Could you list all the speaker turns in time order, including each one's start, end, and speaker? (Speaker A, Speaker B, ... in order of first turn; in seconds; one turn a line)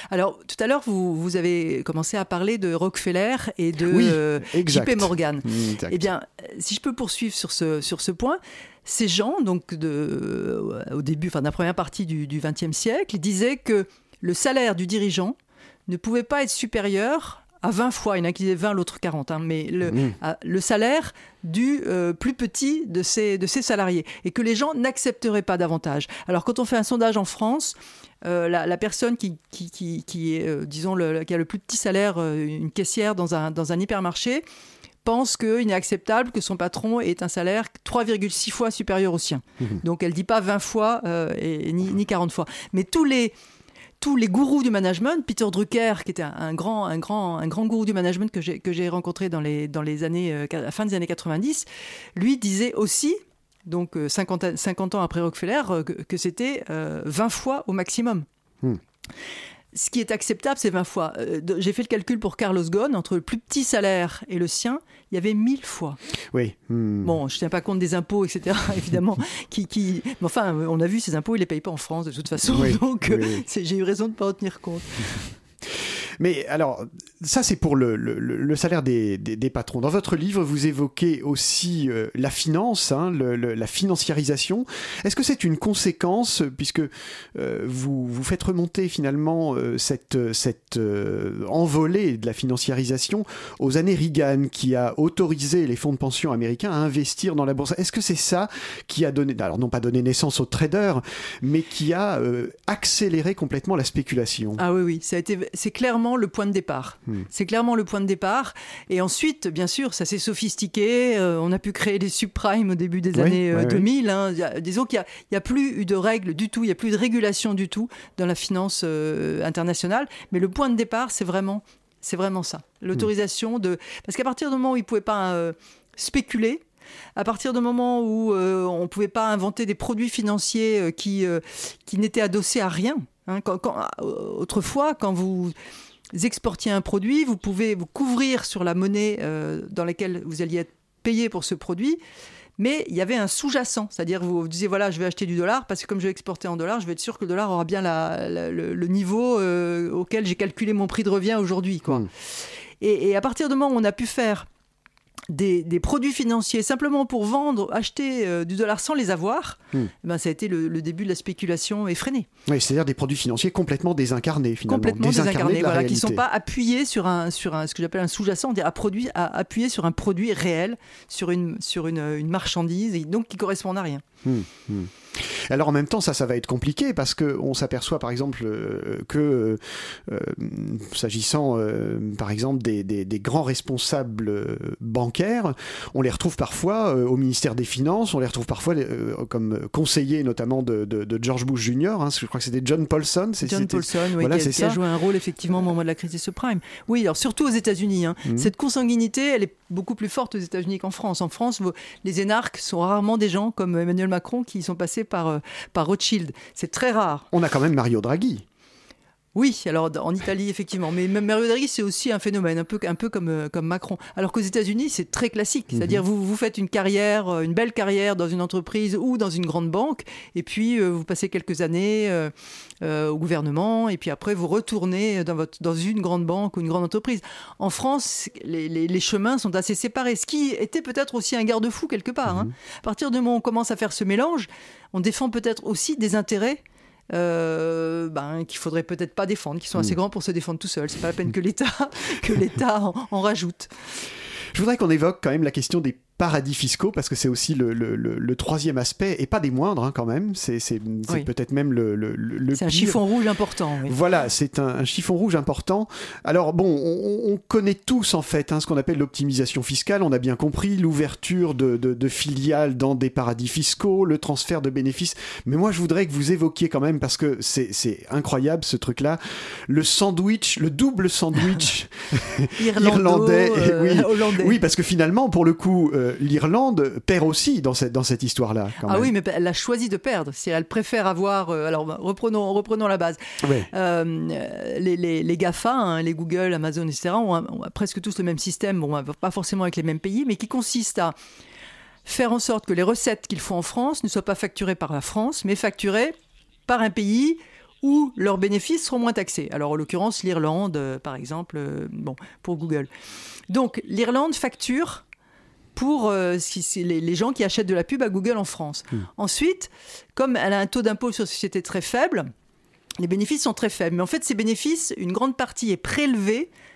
Speaker A: 0.1-15.4
Speaker B: 3.9-6.1
Speaker A: 15.9-34.4
Speaker B: 19.9-20.2
Speaker A: 35.0-43.4
Speaker A: 44.0-58.3
Speaker A: 59.7-66.0
Speaker B: 66.3-67.2
Speaker A: 67.0-75.0
Speaker B: 72.5-73.4
Speaker B: 75.6-104.6
Speaker A: 104.6-126.6
Speaker B: 113.2-113.9
Speaker A: 127.2-135.5
Speaker A: 136.1-142.0
Speaker A: 142.6-152.1
Speaker A: 152.8-154.5
Speaker A: 155.3-162.3
Speaker B: 162.5-166.2
Speaker A: 164.7-174.0
Speaker B: 174.2-194.8
Speaker A: 193.4-207.3
Speaker B: 198.2-198.5
Speaker B: 207.3-208.4
Speaker A: 209.3-243.7
Speaker B: 215.7-216.0
Speaker B: 232.3-232.5
Speaker B: 244.5-253.0
Speaker A: 252.6-254.0
Speaker B: 253.9-279.1
Speaker A: 272.6-274.6
Speaker A: 278.8-283.2
Speaker B: 283.4-283.7
Speaker A: 283.7-291.2
Speaker A: 292.1-296.1
Speaker A: 296.7-302.9
Speaker A: 303.5-305.0
Speaker A: 305.8-312.3
Speaker A: 313.0-316.5